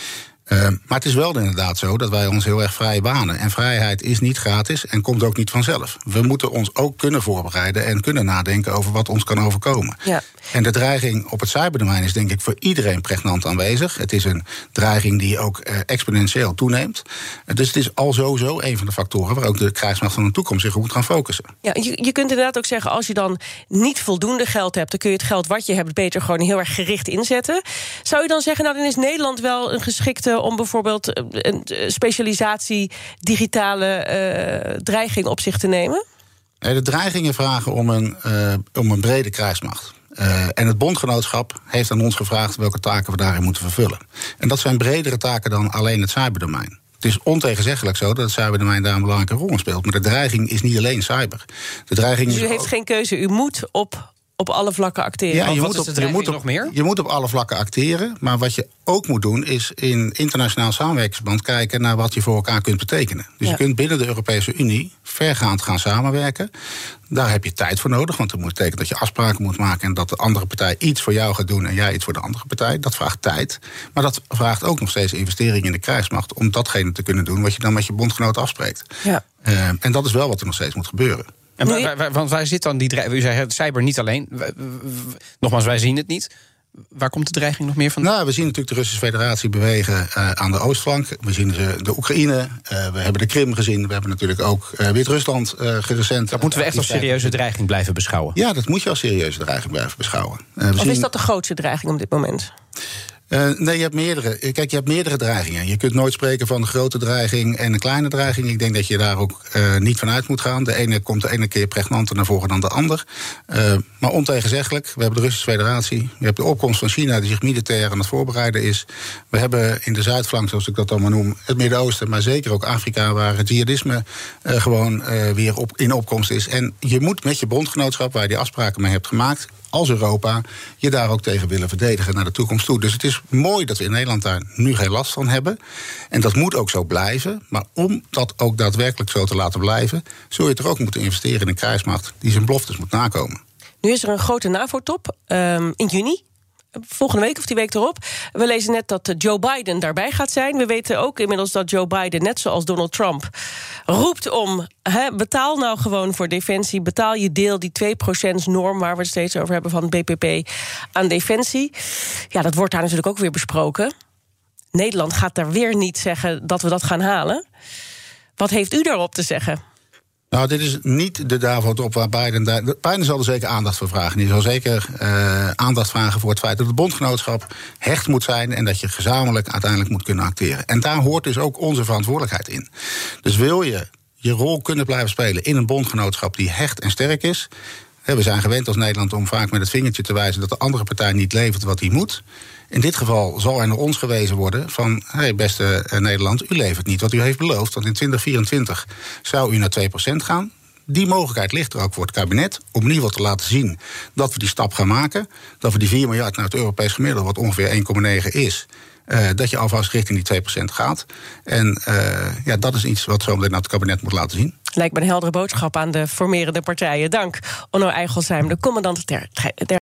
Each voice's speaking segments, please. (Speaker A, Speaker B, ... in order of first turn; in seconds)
Speaker A: 0.5-10.0, 10.5-21.5, 36.6-52.7, 55.3-66.5, 67.1-78.9, 79.4-81.3, 88.0-97.4, 98.3-101.1, 103.3-135.6, 136.1-143.4, 170.3-182.7, 183.2-187.5, 188.1-214.5
Speaker B: 21.6-36.0, 52.3-55.5, 100.8-102.5, 143.8-146.2, 146.8-153.3, 153.9-161.7, 162.3-163.9, 164.7-167.4, 168.4-169.6, 214.7-219.8
Speaker C: 55.5-56.7, 81.6-86.3, 86.9-88.1, 96.3-98.3